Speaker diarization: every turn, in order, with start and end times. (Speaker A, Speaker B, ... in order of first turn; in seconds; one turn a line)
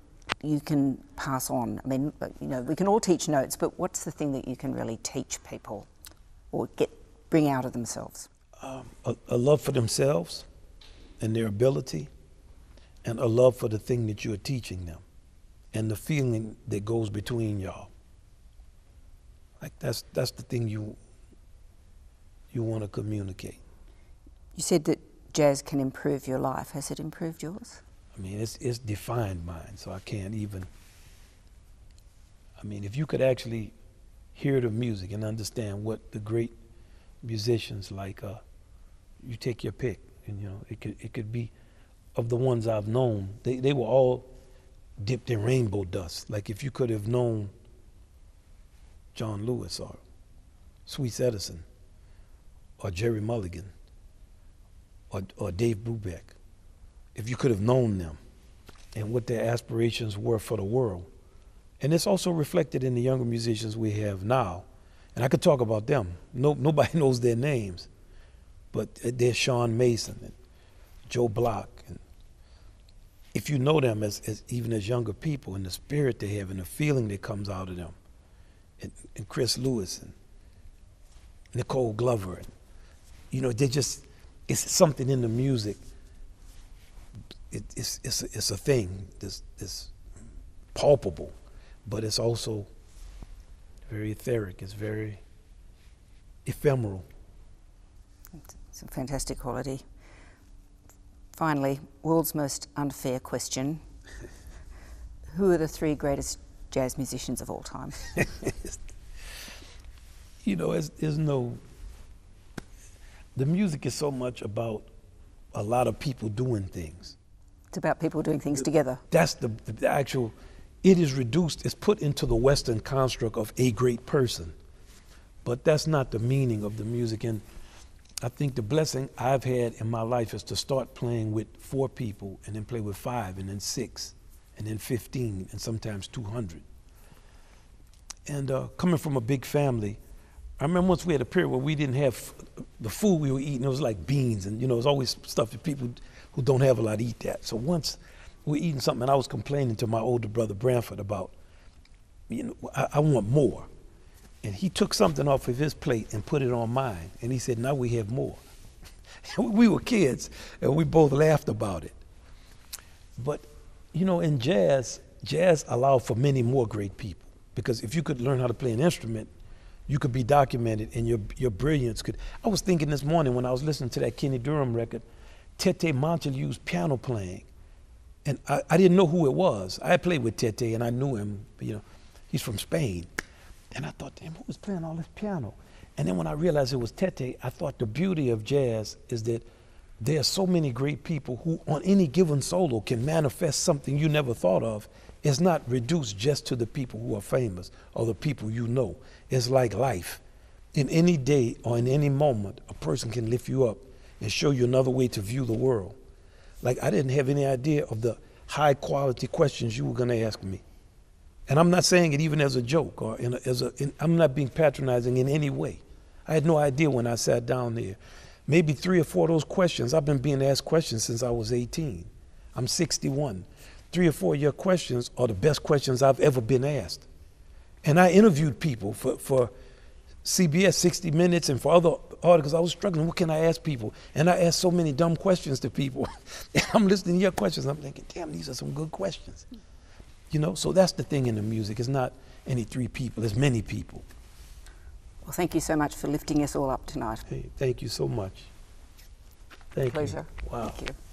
Speaker A: 0.4-5.9
Speaker A: 6.5-8.3
Speaker B: 8.6-10.4
Speaker B: 11.2-12.1
Speaker B: 13.0-15.0
Speaker B: 15.7-17.9
Speaker B: 19.6-21.0
Speaker B: 22.5-23.6
Speaker A: 24.5-27.8
Speaker B: 28.1-30.7
Speaker B: 32.6-33.7
Speaker B: 34.3-36.5
Speaker B: 37.2-38.4
Speaker B: 39.2-41.5
Speaker B: 42.1-44.3
Speaker B: 45.0-47.5
Speaker B: 49.1-50.0
Speaker B: 50.9-51.6
Speaker B: 52.8-53.7
Speaker B: 55.1-56.4
Speaker B: 57.1-58.2
Speaker B: 58.9-61.1
Speaker B: 61.8-67.9
Speaker B: 68.7-70.3
Speaker B: 71.1-72.0
Speaker B: 73.3-78.0
Speaker B: 78.8-80.1
Speaker B: 81.5-82.5
Speaker B: 83.3-85.8
Speaker B: 87.5-89.9
Speaker B: 90.7-91.3
Speaker B: 91.8-92.7
Speaker B: 93.9-95.2
Speaker B: 96.5-97.0
Speaker A: 98.7-99.8
Speaker A: 101.3-103.8
Speaker A: 105.3-108.0
Speaker B: 110.4-111.6
Speaker B: 113.3-114.9
Speaker B: 115.5-117.1
Speaker A: 117.7-119.0
Speaker B: 119.1-124.5
Speaker B: 125.4-127.4
Speaker B: 128.2-136.6
Speaker B: 138.3-140.0
Speaker B: 140.6-151.3
Speaker B: 152.3-153.7
Speaker B: 154.4-158.4
Speaker B: 159.2-162.0
Speaker B: 163.2-169.3
Speaker B: 169.9-175.1
Speaker B: 175.6-177.5
Speaker B: 178.2-183.1
Speaker B: 183.7-189.4
Speaker B: 190.0-200.2
Speaker B: 200.7-205.9
Speaker B: 206.6-210.6
Speaker B: 211.5-227.0
Speaker B: 227.8-229.5
Speaker B: 230.2-239.4
Speaker B: 240.3-244.0
Speaker A: 245.2-247.2
Speaker B: 247.3-248.5
Speaker B: 249.7-250.8
Speaker A: 249.8-251.0